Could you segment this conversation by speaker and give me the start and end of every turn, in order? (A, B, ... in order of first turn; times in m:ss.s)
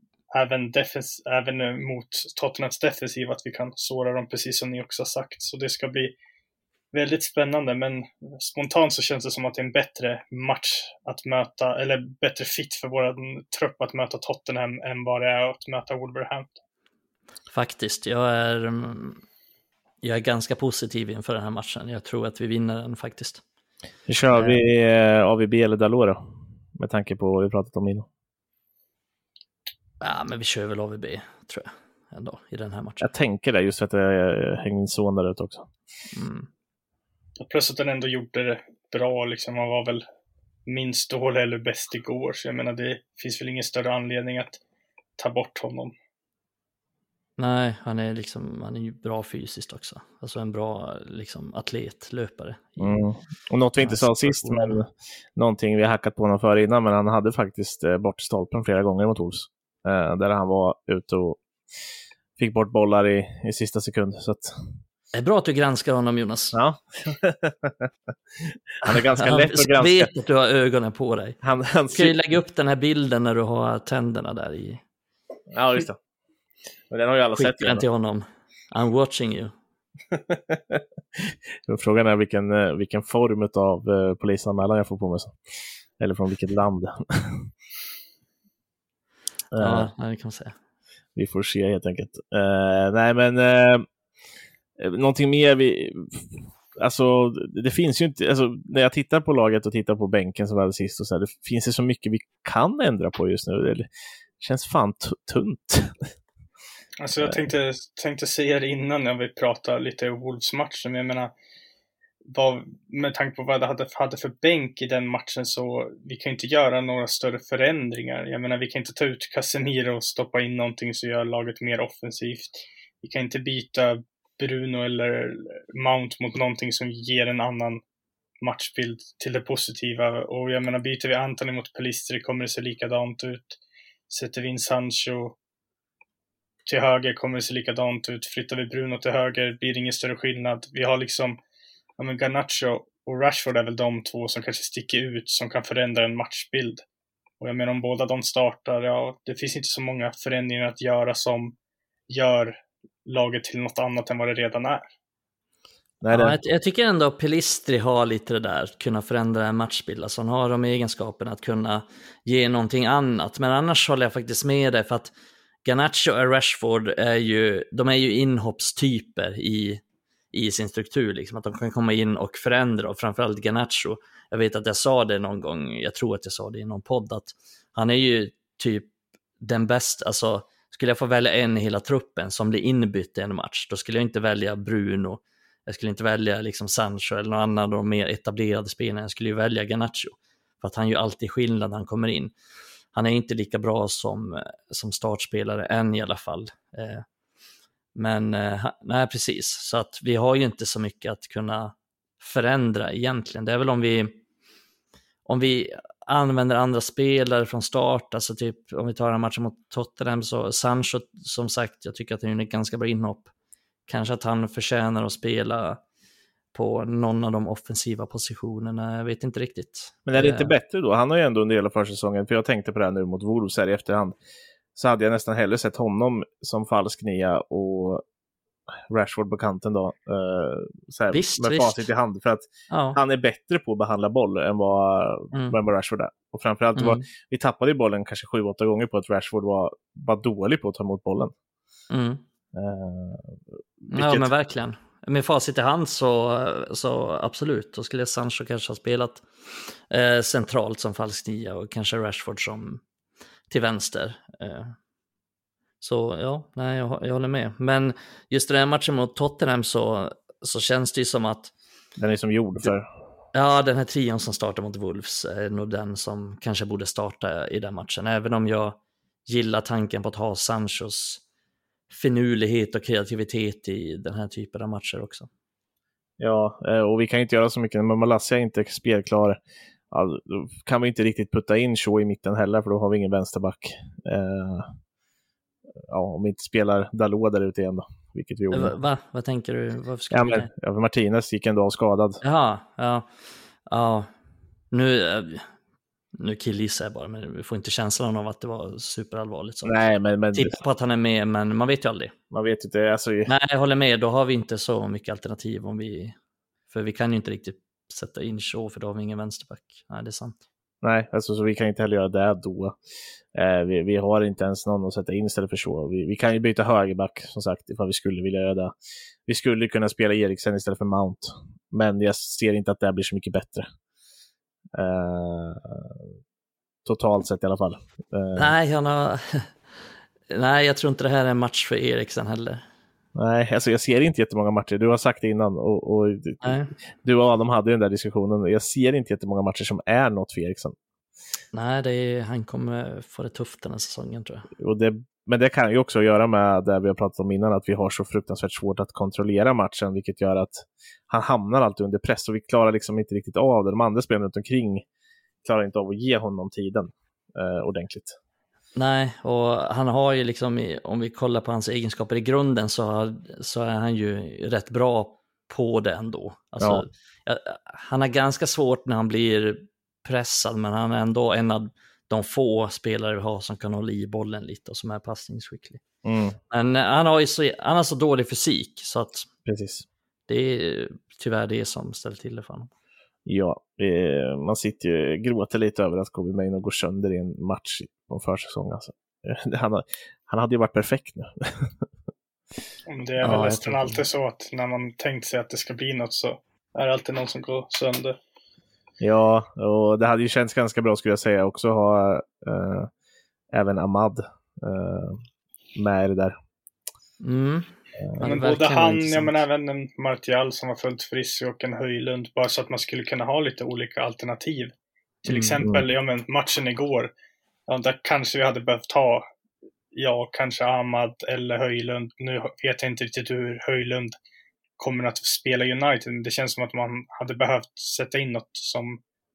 0:00.3-0:06.1 A
0:06.9-0:16.5 A
0:17.5-0:19.2 B
0:20.0-0:23.4 B
0:24.1-0:26.2 C
0:24.3-0:24.6 B
0:26.8-0:28.1 C
0:30.0-0:33.1 B
0:33.0-0:35.7 C
0:36.1-0:36.5 B
0:37.4-0:40.0 A
0:40.7-0:44.6 A
0:45.2-0:45.9 A
0:47.4-0:53.0 B
0:52.8-1:01.4 C
0:53.8-0:54.8 B
1:02.4-1:04.7 C
1:05.1-1:06.6 B
1:06.5-1:07.9 C
1:08.4-1:10.1 C
1:08.8-1:11.4 B
1:11.4-1:12.2 C
1:11.9-1:14.8 B
1:15.5-1:16.0 C
1:16.9-1:17.8 C
1:17.4-1:19.5 B
1:20.1-1:25.4 C
1:26.0-1:27.5 C
1:29.5-1:29.9 C
1:29.6-1:30.6 B
1:31.2-1:33.9 C
1:34.8-1:43.9 C
1:44.4-1:46.1 C
1:47.0-1:51.3 A
1:52.2-2:07.8 A
2:08.4-2:13.6 A
2:14.1-2:15.4 A
2:16.7-2:21.4 A
2:22.0-2:26.8 A
2:27.4-2:31.6 A
2:32.1-2:34.9 A
2:36.0-2:36.4 C
2:36.1-2:45.1 B
2:45.6-2:58.9 B
2:59.4-3:12.3 B
3:12.9-3:17.0 B
3:18.0-3:24.2 B
3:25.3-3:33.3 B
3:33.9-3:35.8 B
3:36.5-3:40.5 B
3:40.1-3:44.1 C
3:44.8-3:48.0 C
3:48.9-4:01.3 C
3:51.1-3:51.9 B
3:52.7-3:53.0 B
3:55.3-3:55.6 B
3:56.8-3:57.1 B
4:01.9-4:02.2 B
4:02.5-4:03.4 C
4:03.9-4:04.3 C
4:03.9-4:09.3 B
4:09.9-4:12.8 B
4:13.5-4:14.8 B
4:15.8-4:21.5 B
4:22.0-4:22.9 C
4:23.3-4:31.2 B
4:31.9-4:35.3 B
4:36.2-4:39.4 C
4:39.9-4:44.7 C
4:45.9-4:48.8 C
4:48.5-4:50.5 B
4:50.1-4:52.2 C
4:52.2-4:53.1 B
4:53.7-4:54.1 B
4:54.7-4:55.5 B
4:56.2-4:59.8 B
4:59.6-5:00.6 C
5:00.3-5:02.1 B
5:02.3-5:03.3 C
5:03.3-5:06.2 B
5:06.7-5:10.4 B
5:10.8-5:12.8 C
5:13.3-5:18.7 C
5:19.3-5:23.7 C
5:24.8-5:26.1 C
5:26.8-5:28.5 C
5:28.4-5:29.6 B
5:30.3-5:32.7 B
5:33.2-5:36.4 C
5:36.4-5:36.7 B
5:37.0-5:40.8 C
5:41.5-5:44.5 B
5:44.6-5:54.8 C
5:55.4-5:58.2 C
5:58.8-6:15.8 B
6:06.6-6:06.9 C
6:16.0-6:16.4 C
6:16.5-6:19.3 B
6:19.5-6:19.9 C
6:20.3-6:22.7 B
6:23.3-6:31.7 C
6:32.9-6:38.2 A
6:33.2-6:34.0 B
6:39.0-6:42.9 C
6:43.5-6:45.2 C
6:45.8-6:46.3 C
6:47.2-6:49.4 B
6:48.2-6:54.7 A
6:55.2-6:57.1 A
6:55.3-6:55.6 B
6:57.7-6:59.3 A
6:59.9-7:04.2 A
7:04.8-7:09.0 A